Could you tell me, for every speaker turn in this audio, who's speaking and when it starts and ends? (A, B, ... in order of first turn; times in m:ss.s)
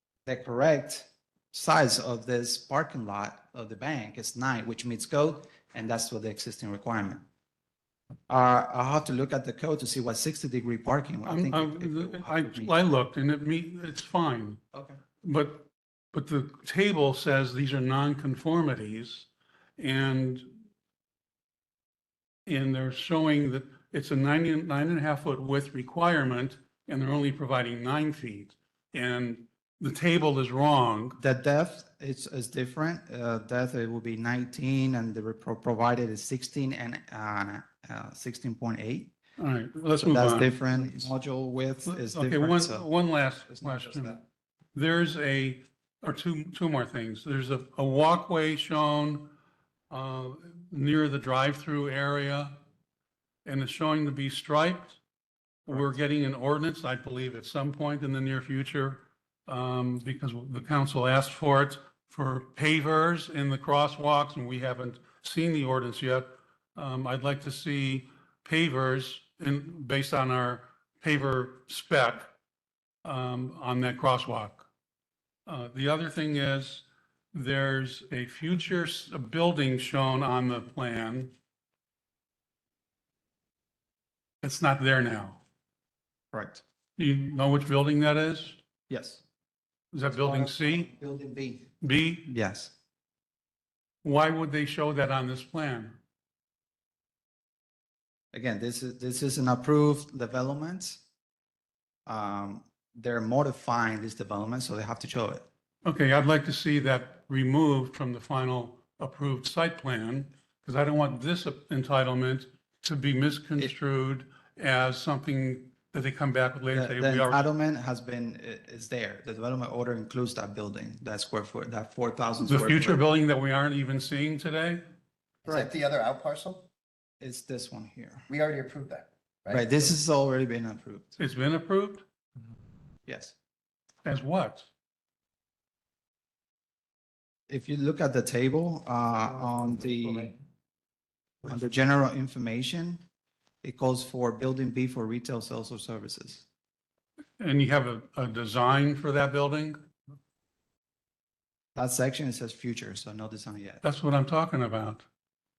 0:00.3-0:07.2 A
0:08.3-0:12.8 A
0:11.2-0:14.6 B
0:15.2-0:20.5 B
0:22.5-0:31.2 B
0:31.2-0:39.1 A
0:39.4-0:40.5 B
0:40.0-0:42.9 A
0:41.9-0:44.2 B
0:43.5-0:44.2 A
0:44.8-0:49.3 B
0:49.9-0:52.6 B
0:53.4-0:55.0 B
0:55.7-1:12.3 B
1:13.0-1:14.7 B
1:15.5-1:21.3 B
1:24.4-1:25.4 B
1:26.3-1:26.6 A
1:27.0-1:28.6 B
1:28.9-1:29.2 A
1:29.9-1:30.9 B
1:30.1-1:31.7 A
1:31.8-1:32.3 B
1:32.3-1:32.7 A
1:34.0-1:36.0 B
1:38.3-1:41.0 A
1:42.1-1:45.5 A
1:45.8-1:57.4 B
1:56.7-2:03.0 A
2:02.4-2:04.8 B
2:05.4-2:06.7 C
2:05.5-2:05.7 A
2:07.2-2:08.3 A
2:08.3-2:09.9 C
2:09.5-2:11.2 A
2:11.2-2:12.0 B
2:13.1-2:13.4 A
2:14.0-2:14.7 B
2:17.5-2:20.3 A
2:21.4-2:23.0 A
2:23.6-2:26.5 A
2:27.4-2:29.8 B
2:31.8-2:33.8 A
2:33.8-2:35.0 B